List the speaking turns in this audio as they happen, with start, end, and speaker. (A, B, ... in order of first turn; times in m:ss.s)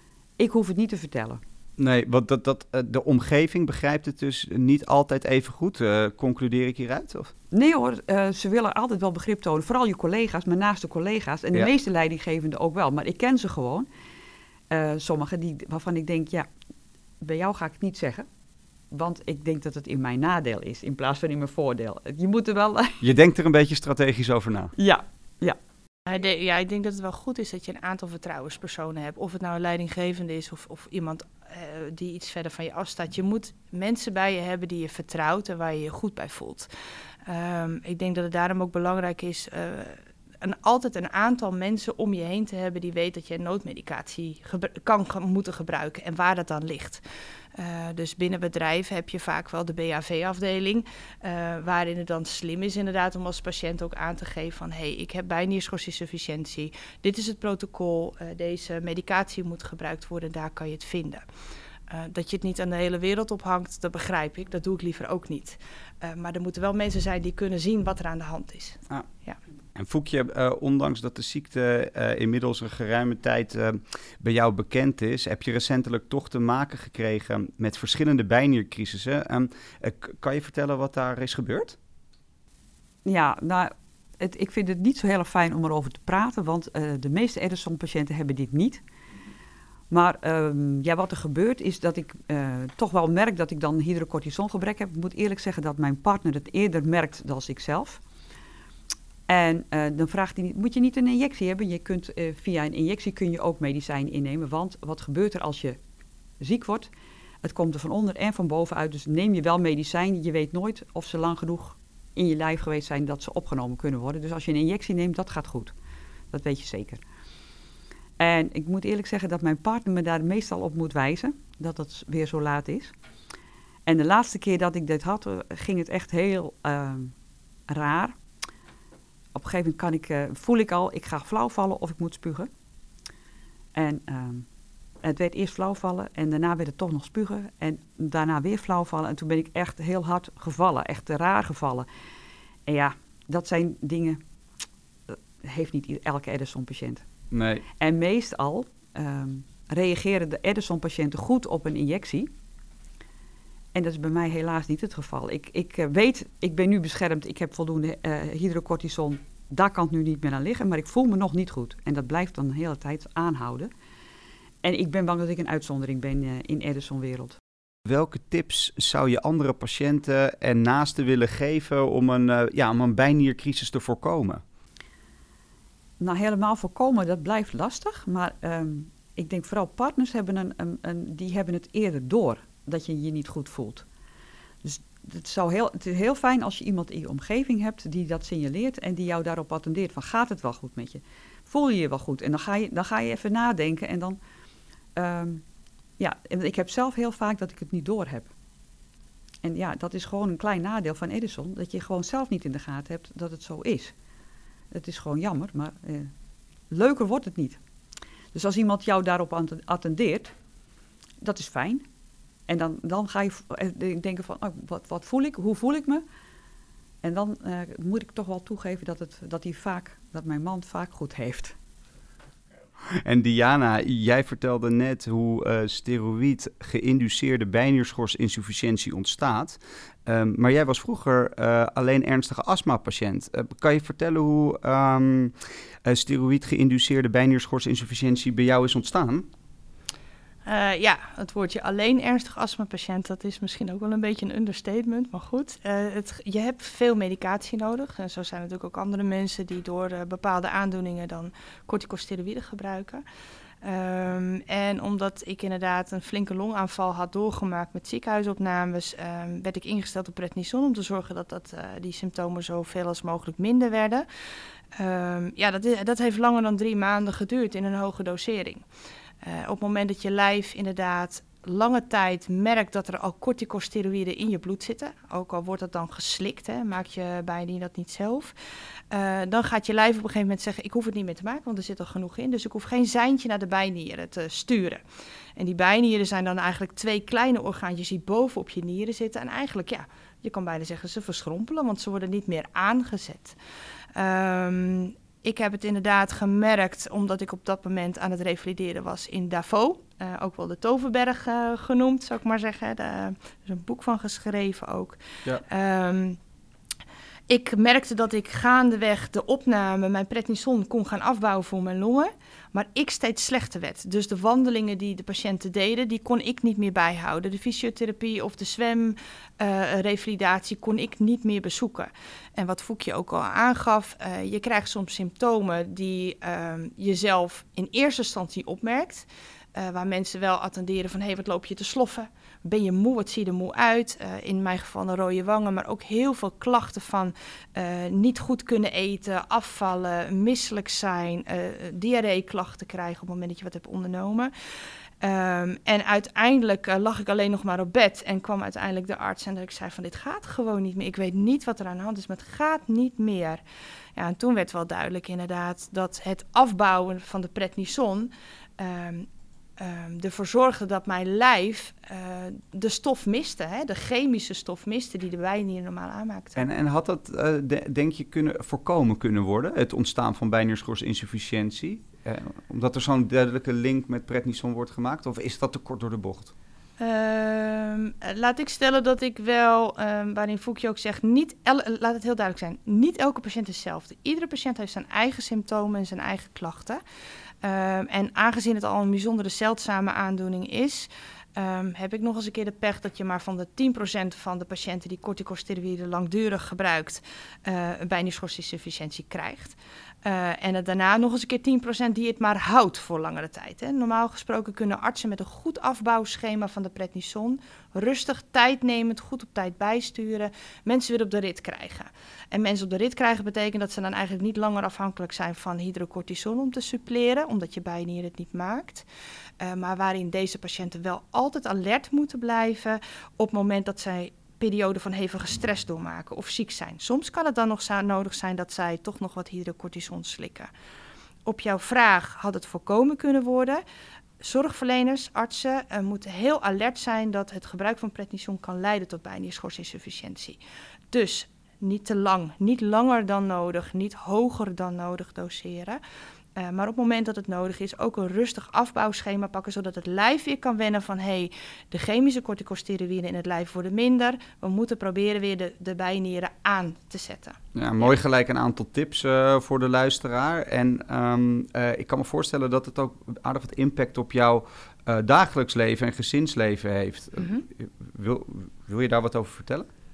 0:00.4-0:01.4 A
0:01.8-0:07.3 B
0:07.5-0:13.9 A
0:14.7-0:16.5 A
0:17.2-0:18.3 A
0:18.9-0:23.0 A
0:23.0-0:24.7 B
0:24.8-0:25.6 A
0:26.1-0:36.7 C
0:37.2-0:47.0 C
0:47.5-1:01.2 C
1:01.9-1:09.4 C
1:09.8-1:21.8 B
1:23.0-1:28.8 A
1:29.9-1:38.0 A
1:39.3-1:45.8 A
1:46.4-1:46.9 A
1:47.4-1:55.7 A
1:56.3-1:57.0 A
1:58.2-2:02.9 A
2:03.9-2:07.1 A
2:07.7-2:08.2 A
2:09.3-2:12.5 A
2:13.8-2:14.5 A
2:15.0-2:21.9 A
2:22.7-2:24.2 A
2:25.1-2:27.0 A
2:27.3-2:27.6 B
2:27.8-2:32.3 A
2:33.7-2:43.7 A
2:44.6-2:47.4 A
2:47.9-2:54.4 B
2:56.0-3:03.8 A
3:04.6-3:14.2 A
3:15.0-3:15.4 A
3:16.0-3:18.3 A
3:19.4-3:23.9 A
3:24.7-3:26.1 A
3:26.7-3:27.6 A
3:28.3-3:30.3 A
3:31.2-3:31.8 A
3:32.5-3:36.0 A
3:37.0-3:41.6 A
3:43.0-3:59.3 B
4:00.4-4:13.0 C
4:13.6-4:24.1 C
4:24.7-4:28.6 C
4:29.2-4:38.4 C
4:38.9-4:44.8 C
4:45.4-4:53.4 C
4:54.0-5:06.2 C
5:07.3-5:44.3 C
5:45.0-5:53.4 C
5:54.0-6:06.4 C
6:06.4-6:16.3 B
6:16.8-6:26.8 C
6:27.4-6:58.9 C
6:59.4-7:10.5 C
7:11.2-7:13.6 C
7:14.2-7:20.4 C
7:20.9-7:25.8 C
7:26.4-7:37.9 C
7:37.6-7:49.7 B
7:47.2-7:47.5 C